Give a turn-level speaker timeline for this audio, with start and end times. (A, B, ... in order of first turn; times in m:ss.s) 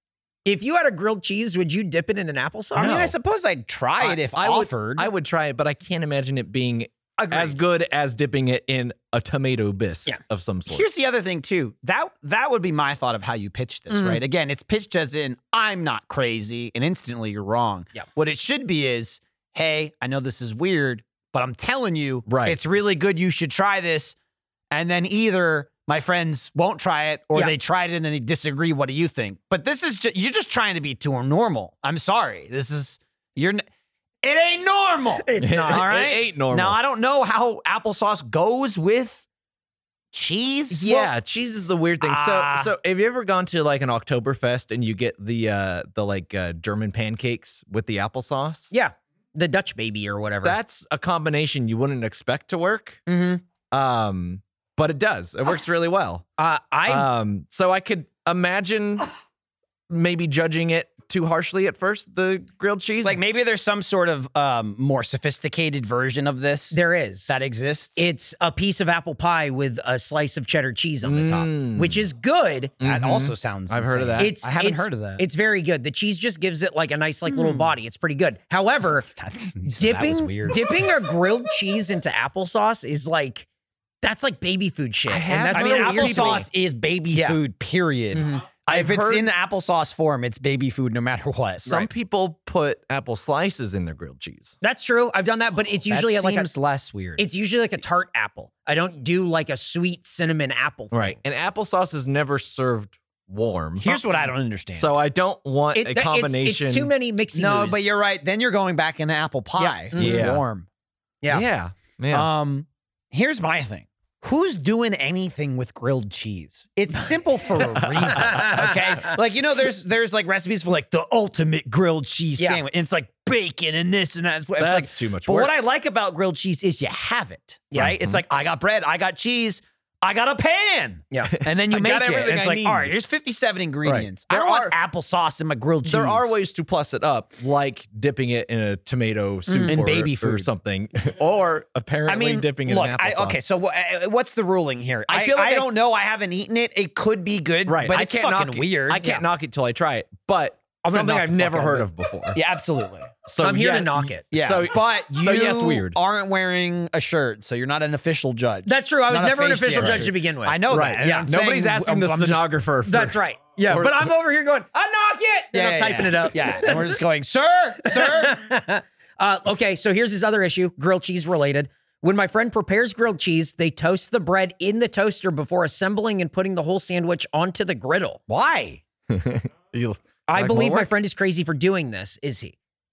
0:00.4-0:03.1 A
0:02.7-0:05.1 B
0:02.8-0:03.1 C
0:04.0-0:10.9 C
0:07.2-0:07.6 B
0:10.7-0:24.2 B
0:13.9-0:14.2 A
0:22.3-0:22.6 C
0:24.7-0:33.6 B
0:34.2-0:39.2 B
0:35.2-0:35.9 A
0:35.4-0:36.8 C
0:40.1-0:41.1 B
0:40.8-0:48.7 C
0:42.0-0:42.7 B
0:48.7-0:50.6 A
0:50.4-0:53.0 C
0:53.1-0:53.4 A
0:53.7-0:56.2 C
0:56.4-0:57.1 A
0:56.8-0:59.1 C
0:59.9-1:03.2 C
1:03.0-1:08.0 B
1:06.7-1:07.3 A
1:08.0-1:12.8 A
1:11.0-1:12.0 C
1:12.8-1:14.3 C
1:12.8-1:15.2 B
1:14.2-1:19.1 A
1:19.1-1:20.6 B
1:19.7-1:23.5 A
1:24.0-1:26.5 A
1:25.1-1:26.5 C
1:25.5-1:31.8 B
1:27.1-1:27.4 A
1:28.1-1:28.5 A
1:28.7-1:29.3 C
1:31.6-1:34.5 C
1:34.6-1:36.5 A
1:35.9-1:37.2 B
1:37.2-1:41.2 A
1:40.9-1:46.9 C
1:43.8-1:44.9 B
1:45.7-1:47.9 A
1:47.3-1:50.6 B
1:49.6-1:50.3 A
1:49.9-1:50.4 C
1:51.2-1:51.5 A
1:51.3-1:52.3 C
1:52.1-2:16.4 B
1:57.8-1:58.7 C
1:58.2-1:58.7 A
2:04.6-2:05.5 C
2:07.8-2:08.2 C
2:11.3-2:12.9 C
2:13.8-2:14.7 C
2:15.8-2:23.4 C
2:19.5-2:19.8 A
2:19.7-2:20.5 B
2:22.1-2:29.2 B
2:25.1-2:25.7 C
2:27.6-2:32.4 C
2:30.8-2:31.9 A
2:32.3-2:33.1 B
2:33.2-2:36.0 C
2:33.4-2:34.2 A
2:34.3-2:42.5 B
2:38.6-2:41.3 A
2:39.7-2:40.1 C
2:40.7-2:44.1 C
2:42.8-2:47.0 A
2:45.5-2:48.4 B
2:47.8-2:58.2 A
2:58.3-2:58.8 B
2:59.1-3:00.9 C
3:00.3-3:02.5 A